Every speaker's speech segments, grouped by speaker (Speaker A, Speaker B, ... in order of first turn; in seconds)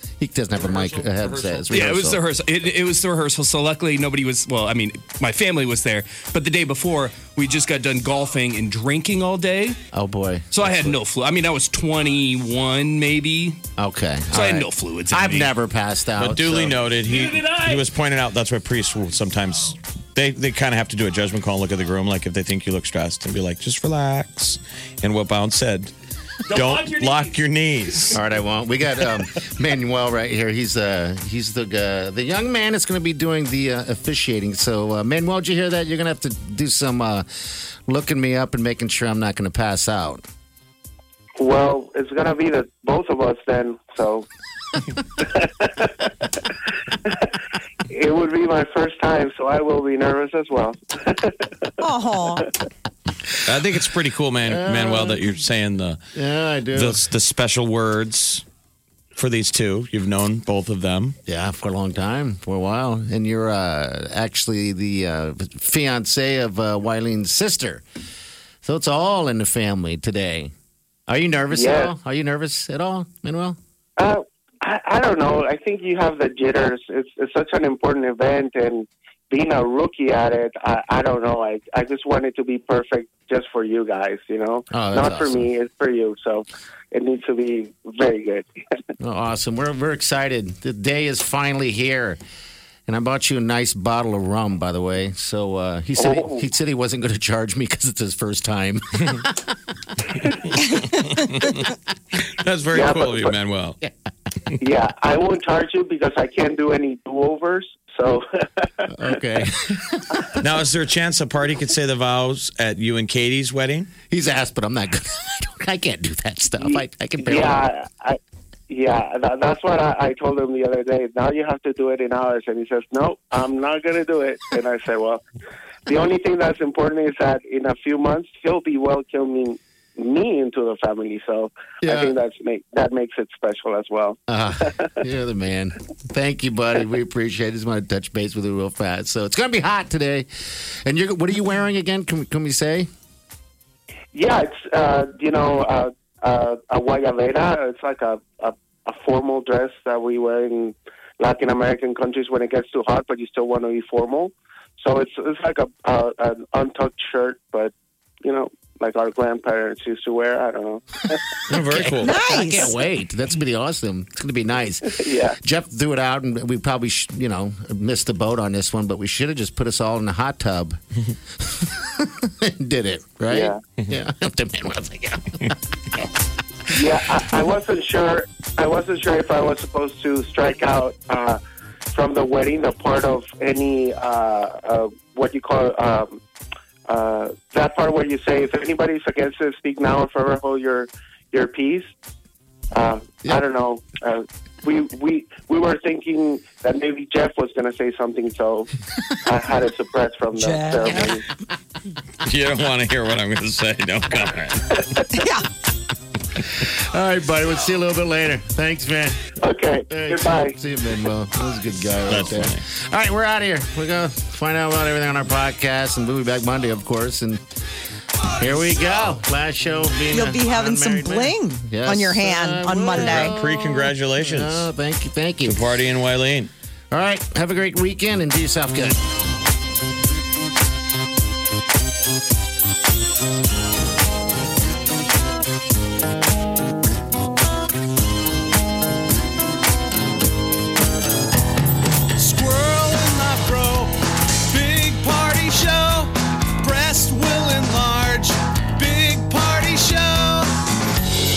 Speaker A: 0.2-2.2, 9.9-11.0, 13.8-16.9, 28.1-40.3, 54.5-55.2, 56.1-57.0, 61.3-67.8, 68.6-70.5, 71.1-73.6, 84.7-85.5, 89.0-92.2, 92.9-99.4, 108.9-110.2, 114.1-117.6, 131.8-132.2, 134.3-142.9, 161.5-170.8, 171.4-175.6, 206.6-209.4, 209.9-217.4, 218.4-225.6, 226.9-229.0
Speaker B: 0.6-1.7, 16.2-25.9, 26.5-28.2, 53.5-56.0, 56.7-58.4, 59.2-61.2, 100.9-101.7, 102.3-103.8, 110.4-113.9, 161.5-162.1, 202.2-204.7, 212.1-212.6, 222.9-224.7, 225.5-226.5
Speaker C: 1.7-9.8, 10.5-13.6, 14.3-15.5, 17.1-17.8, 26.5-27.4
Speaker D: 41.4-44.3, 45.2-46.1, 47.0-47.3, 47.9-51.5, 71.5-71.9, 74.0-88.5, 96.0-96.5, 102.7-103.3, 104.6-109.2, 116.6-125.2, 125.9-134.9, 144.1-157.7, 158.2-161.2, 164.9-165.4, 173.3-173.6, 176.7-181.4, 181.9-186.2, 186.9-191.9, 192.7-198.7, 199.2-201.2, 204.7-205.1, 209.4-210.6
Speaker E: 51.8-52.5, 162.0-162.8, 200.4-201.2, 205.1-205.5, 220.1-223.4
Speaker F: 242.2-243.9, 244.5-250.5